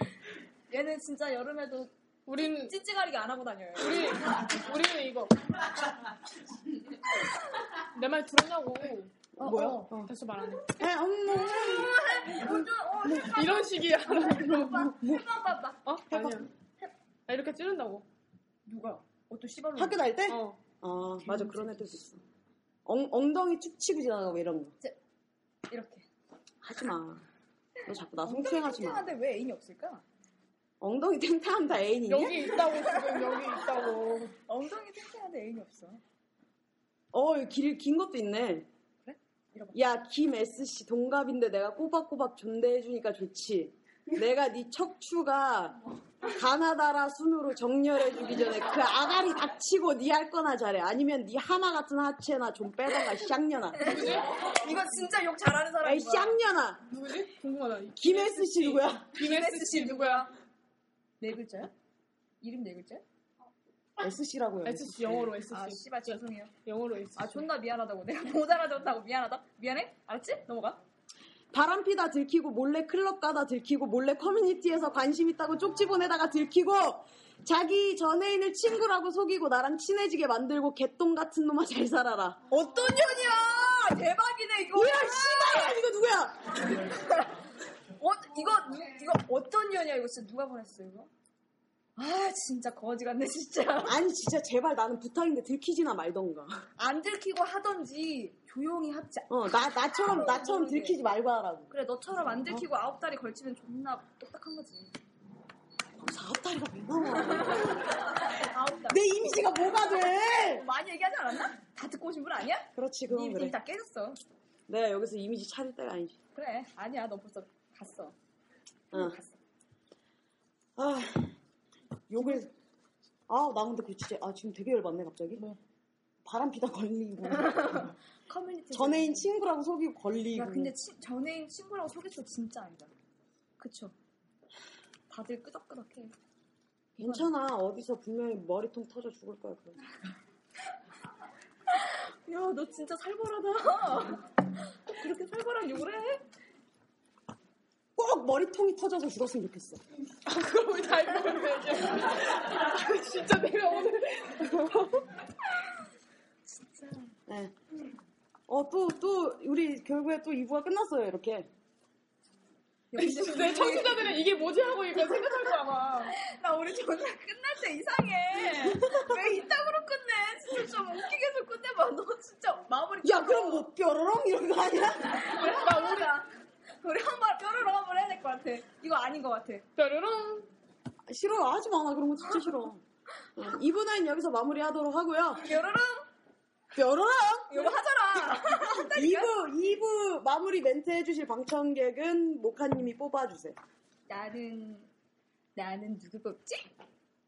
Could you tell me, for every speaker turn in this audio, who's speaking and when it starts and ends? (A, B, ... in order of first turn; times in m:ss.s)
0:00.7-0:04.1 A
0:02.3-0:02.7 B
0:03.8-0:05.3 B
0:07.9-0:10.8 B
0:09.4-0:10.1 C
0:09.4-0:09.9 A
0:10.7-0:13.2 C
0:11.3-0:16.0 A
0:13.2-0:14.9 B
0:14.7-0:15.2 C
0:15.9-0:16.5 B
0:16.1-0:16.4 C
0:17.3-0:18.0 B
0:18.7-0:20.0 A
0:19.8-0:22.2 C
0:20.3-0:20.6 B
0:22.9-0:24.7 C
0:25.7-0:26.1 A
0:26.6-0:27.2 C
0:27.9-0:29.0 C
0:28.2-0:30.0 A
0:30.8-0:32.6 C
0:32.1-0:34.3 B
0:34.5-0:36.0 A
0:37.1-0:38.7 C
0:39.0-0:39.8 A
0:39.7-0:45.8 C
0:46.3-0:54.1 C
0:53.8-0:56.4 A
0:53.8-0:54.3 B
0:55.8-0:56.9 C
0:56.9-1:00.3 B
0:58.0-0:59.1 C
0:59.2-1:00.3 A
1:01.2-1:01.7 A
1:02.4-1:03.0 A
1:04.0-1:05.3 C
1:04.6-1:05.9 B
1:05.5-1:06.5 A
1:06.7-1:07.4 B
1:07.2-1:10.8 A
1:11.5-1:22.4 C
1:22.5-1:25.8 A
1:24.7-1:26.5 C
1:28.0-1:31.1 A
1:32.0-1:34.0 A
1:33.8-1:36.6 C
1:36.8-1:41.0 A
1:39.3-1:41.7 C
1:41.7-1:44.9 A
1:46.0-1:48.0 C
1:47.3-1:49.0 A
1:48.9-1:50.7 C
1:50.1-1:54.2 A
1:52.8-1:53.6 C
1:54.7-1:56.2 C
1:56.4-1:58.2 A
1:58.9-1:59.4 A
2:00.8-2:01.4 C
2:02.1-2:02.5 C
2:03.3-2:05.4 C
2:06.2-2:07.9 C
2:07.4-2:09.3 A
2:08.7-2:10.7 C
2:10.4-2:12.9 A
2:13.6-2:13.9 A
2:15.1-2:16.2 A
2:17.0-2:17.3 A
2:17.0-2:19.8 C
2:21.7-2:26.2 A
2:28.0-2:29.8 C
2:30.2-2:35.0 B
2:36.5-2:37.1 A
2:37.3-2:37.5 C
2:38.5-2:41.5 C
2:42.9-2:44.2 A
2:43.0-2:46.1 B
2:46.1-2:53.7 A
2:53.0-2:55.3 C
2:55.0-2:56.3 A
2:55.4-2:56.1 B
2:56.8-2:59.6 A
2:59.8-3:00.5 B
3:01.1-3:02.8 C
3:03.4-3:05.5 C
3:05.4-3:06.1 A
3:06.7-3:07.6 C
3:07.5-3:09.3 A
3:08.3-3:13.6 C
3:14.1-3:14.9 A
3:15.6-3:16.7 A